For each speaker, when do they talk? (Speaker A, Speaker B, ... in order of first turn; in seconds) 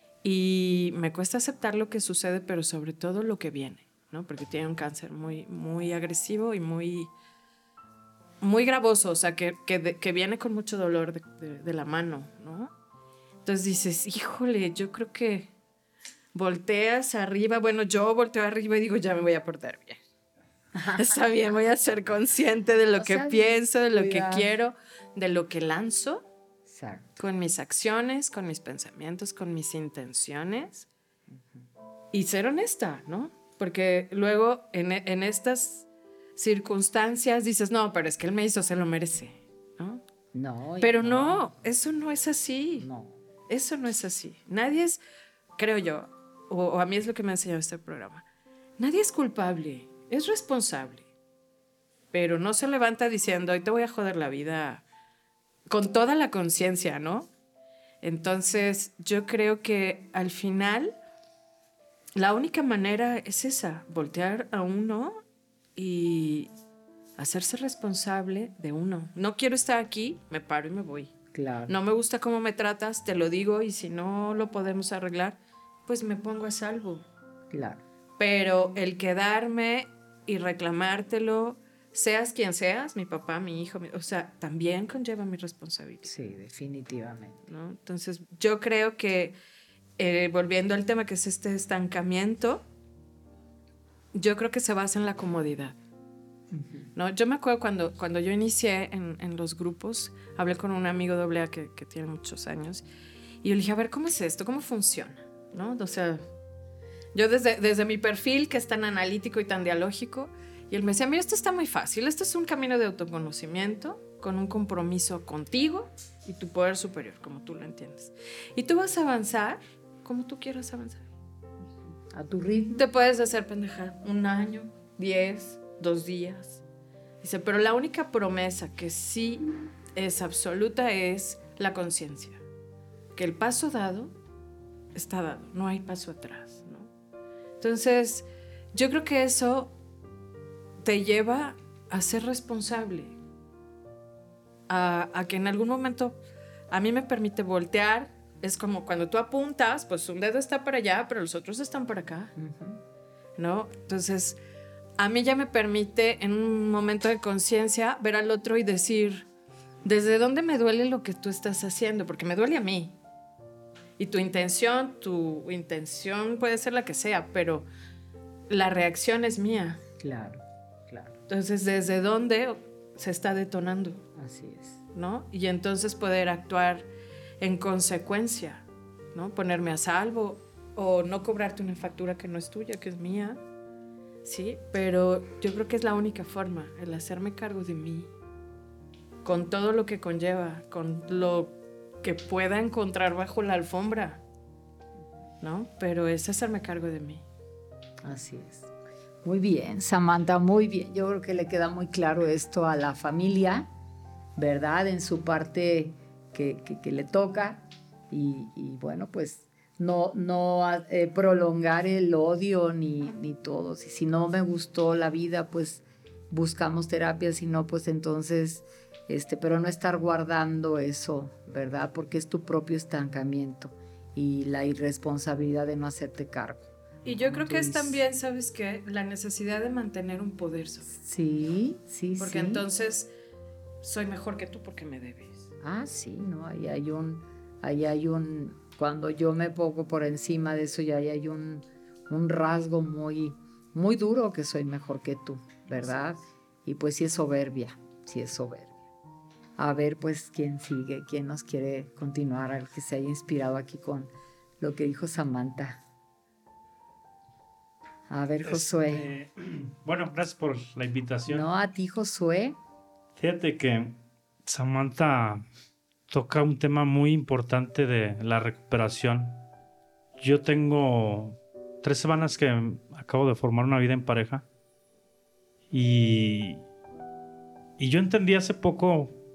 Speaker A: 0.2-7.1, 8.4-12.7, 13.4-15.5, 16.3-20.0, 21.0-26.2, 27.2-30.9, 32.1-40.0, 40.8-42.9, 43.5-45.0, 45.6-48.3, 48.8-51.1, 52.1-54.8, 55.7-57.3, 58.0-60.9, 62.2-65.2, 65.8-66.5, 67.2-71.1, 71.7-77.0, 78.2-86.1, 87.5-89.3, 90.0-92.6, 94.1-95.8, 97.0-102.8, 103.4-106.2, 107.1-121.1, 122.8-126.6, 127.2-132.4, 133.2-134.1, 134.9-136.9, 137.6-139.7, 140.8-143.2, 144.7-146.2, 146.7-152.3, 153.4-154.4, 155.0-159.3, 159.8-163.0, 164.0-167.7, 168.5-169.8, 171.3-174.0, 174.9-176.9, 177.4-183.4, 184.2-188.1, 189.2-194.2, 195.4-197.2, 227.1-230.9, 232.2-233.1, 233.8-235.5
Speaker B: 20.8-21.1, 23.0-24.5, 26.7-27.2, 31.3-31.6, 40.3-41.5, 42.8-43.2, 71.3-71.7, 77.5-77.8, 86.0-87.5, 96.5-96.9, 122.1-122.8, 152.4-152.8, 170.0-171.2, 174.2-174.8, 198.0-198.7, 199.2-203.7, 204.4-228.0, 230.9-232.7, 235.6-248.7, 249.6-255.8, 258.1-259.1, 261.3-262.6
Speaker C: 258.4-261.5, 263.2-265.4, 266.1-269.4, 270.2-274.4, 275.7-276.6, 277.8-279.2